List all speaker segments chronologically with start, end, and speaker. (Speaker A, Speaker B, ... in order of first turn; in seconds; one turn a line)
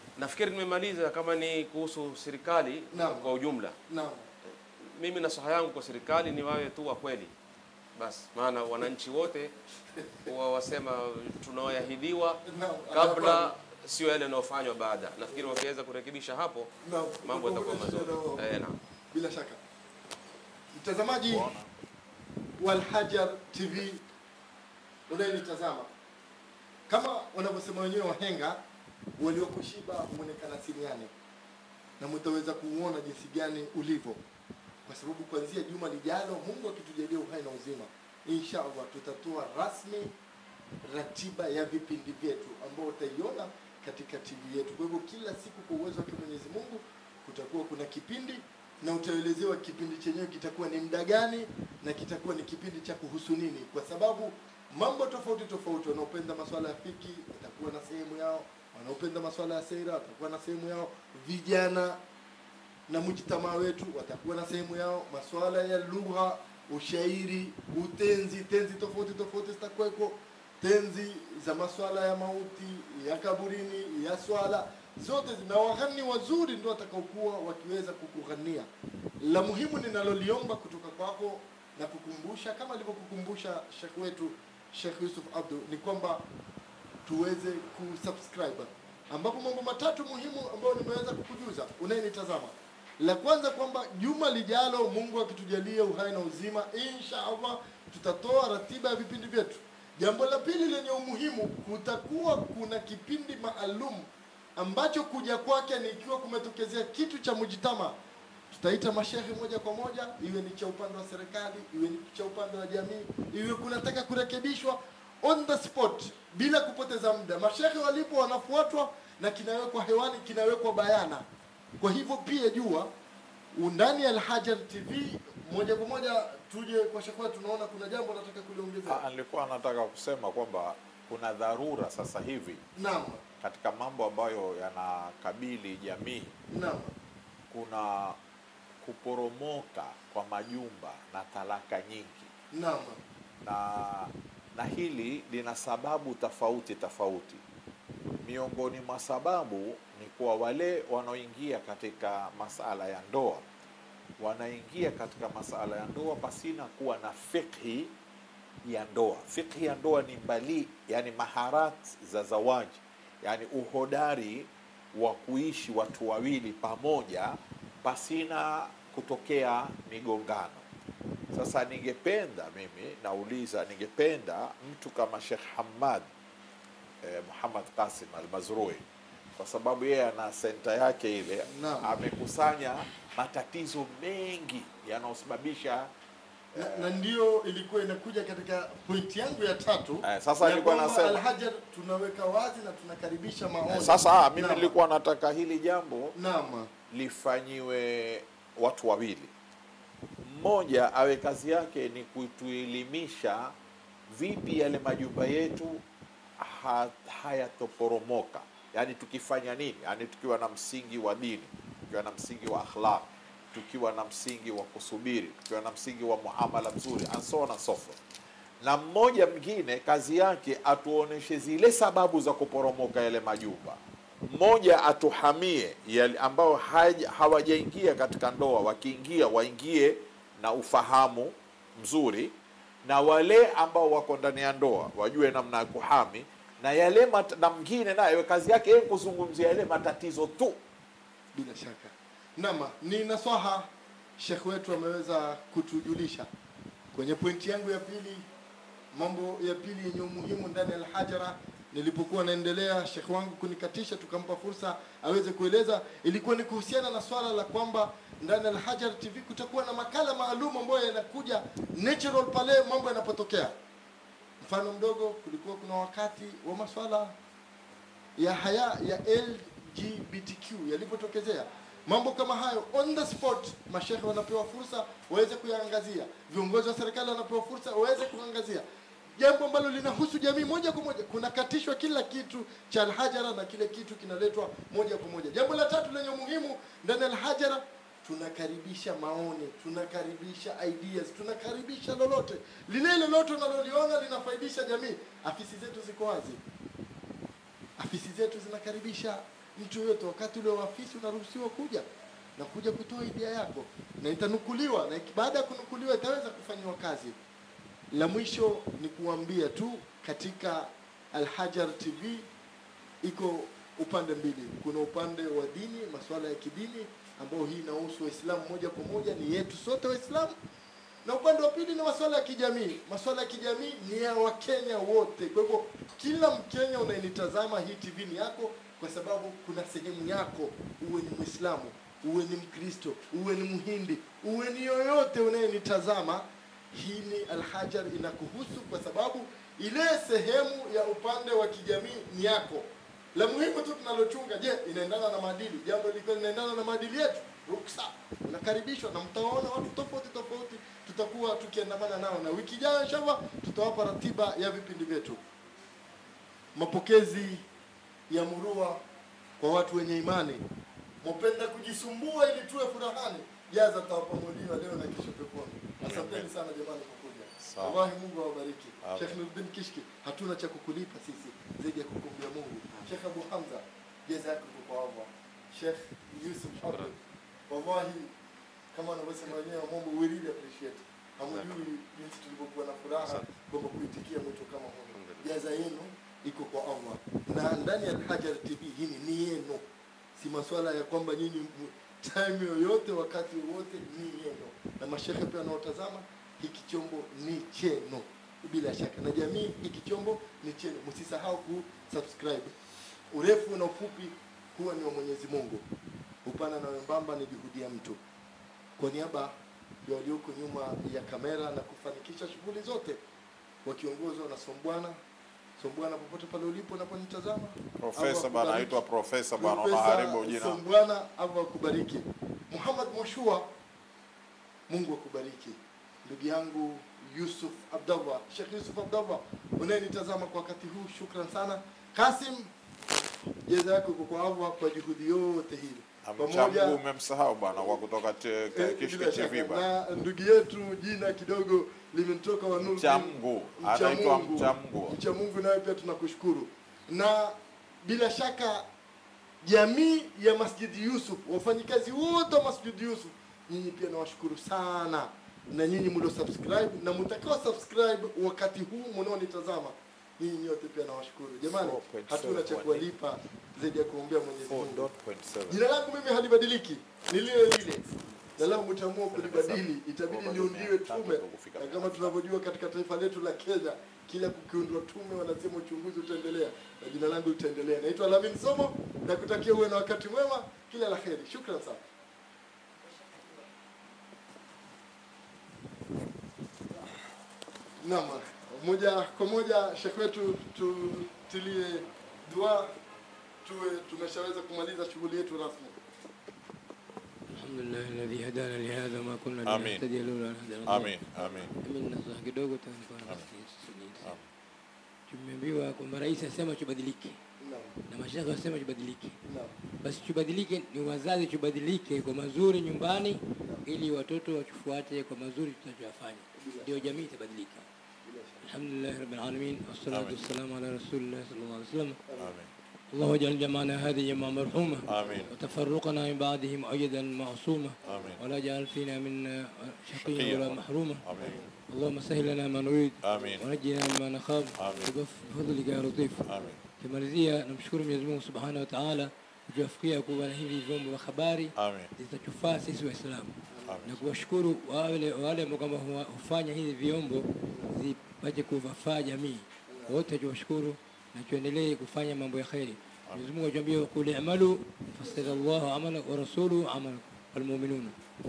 Speaker A: 0.2-3.8
Speaker B: 2.9-3.3
Speaker B: 3.9-4.2
Speaker A: 4.8-7.3
Speaker A: 8.0-9.5
Speaker A: 10.2-16.7
Speaker B: 12.4-13.5
Speaker B: 16.8-18.4
Speaker A: 17.2-18.8
Speaker B: 19.1-19.6
Speaker B: 20.7-21.5
Speaker C: 21.3-21.7
Speaker B: 22.6-24.0
Speaker B: 25.1-25.9
Speaker B: 26.9-28.6
Speaker B: 29.2-31.1
Speaker B: 32.0-34.2
Speaker B: 34.9-40.1
Speaker B: 40.8-62.0
Speaker B: 62.9-78.7
Speaker B: 79.2-86.2
Speaker B: 87.0-108.0
Speaker B: 108.5-121.2
Speaker B: 121.8-122.9
Speaker B: 123.5-129.0
Speaker C: 128.8-132.6
Speaker B: 132.8-133.2
Speaker C: 133.4-136.3
Speaker B: 136.5-136.9
Speaker C: 137.5-138.2
Speaker C: 138.8-142.3
Speaker B: 142.5-143.0
Speaker C: 143.4-147.4
Speaker C: 148.2-153.4
Speaker C: 154.2-157.9
Speaker C: 158.7-170.6
Speaker C: 171.3-176.1
Speaker C: 177.0-178.8
Speaker C: 179.4-185.9
Speaker B: 181.5-181.9
Speaker C: 186.5-187.0
Speaker B: 186.5-194.7
Speaker C: 190.0-191.2
Speaker C: 193.7-196.1
Speaker B: 196.1-196.7
Speaker C: 196.9-199.3
Speaker C: 200.2-203.5
Speaker C: 204.1-205.8
Speaker C: 206.4-218.0
Speaker C: 218.6-232.3
Speaker C: 232.8-240.6
Speaker B: 241.3-246.3
Speaker B: 246.9-248.2
Speaker B: 248.9-263.5
Speaker B: 264.4-267.1
Speaker B: 268.2-278.6
Speaker B: 279.2-296.4
Speaker B: 297.8-301.8
Speaker B: 302.4-307.1
Speaker B: 307.9-312.3
Speaker B: 313.0-320.3
Speaker B: 321.0-355.2
Speaker B: 356.5-357.4
Speaker B: 358.1-358.8
Speaker B: 359.4-360.4
Speaker B: 361.0-376.9
Speaker C: 365.8-366.3
Speaker C: 367.4-367.8
Speaker C: 368.8-369.2
Speaker A: 376.6-376.9
Speaker B: 377.5-378.1
Speaker B: 378.7-389.6
Speaker A: 381.3-381.6
Speaker A: 384.9-385.4
Speaker B: 390.1-402.5
Speaker B: 403.1-405.6
Speaker B: 406.2-408.0
Speaker B: 408.8-409.3
Speaker B: 409.8-413.0
Speaker B: 413.6-415.0
Speaker B: 415.6-418.8
Speaker C: 417.8-420.6
Speaker B: 419.4-423.5
Speaker B: 424.7-432.5
Speaker B: 433.5-436.8
Speaker C: 436.0-439.7
Speaker B: 438.5-448.7
Speaker C: 442.5-445.0
Speaker B: 449.4-464.9
Speaker C: 461.6-462.9
Speaker C: 464.4-465.6
Speaker B: 465.5-481.8
Speaker C: 468.4-472.2
Speaker B: 487.8-492.7
Speaker B: 493.4-495.8
Speaker D: 497.3-504.2
Speaker C: 499.4-499.8
Speaker C: 500.6-501.5
Speaker D: 505.1-507.2
Speaker B: 507.4-507.8
Speaker D: 507.9-509.2
Speaker B: 509.2-509.6
Speaker D: 509.8-517.7
Speaker B: 516.4-517.0
Speaker B: 518.0-518.4
Speaker D: 518.4-522.0
Speaker C: 519.9-520.2
Speaker B: 522.1-522.4
Speaker C: 522.2-522.5
Speaker D: 522.9-531.0
Speaker C: 524.9-525.3
Speaker B: 525.0-525.3
Speaker C: 527.8-528.2
Speaker C: 530.0-531.4
Speaker B: 531.1-531.5
Speaker D: 531.7-558.0
Speaker C: 533.0-533.5
Speaker C: 534.5-534.9
Speaker C: 536.2-536.6
Speaker C: 541.6-541.9
Speaker B: 543.5-544.0
Speaker C: 543.6-544.0
Speaker B: 547.5-547.7
Speaker B: 549.7-550.0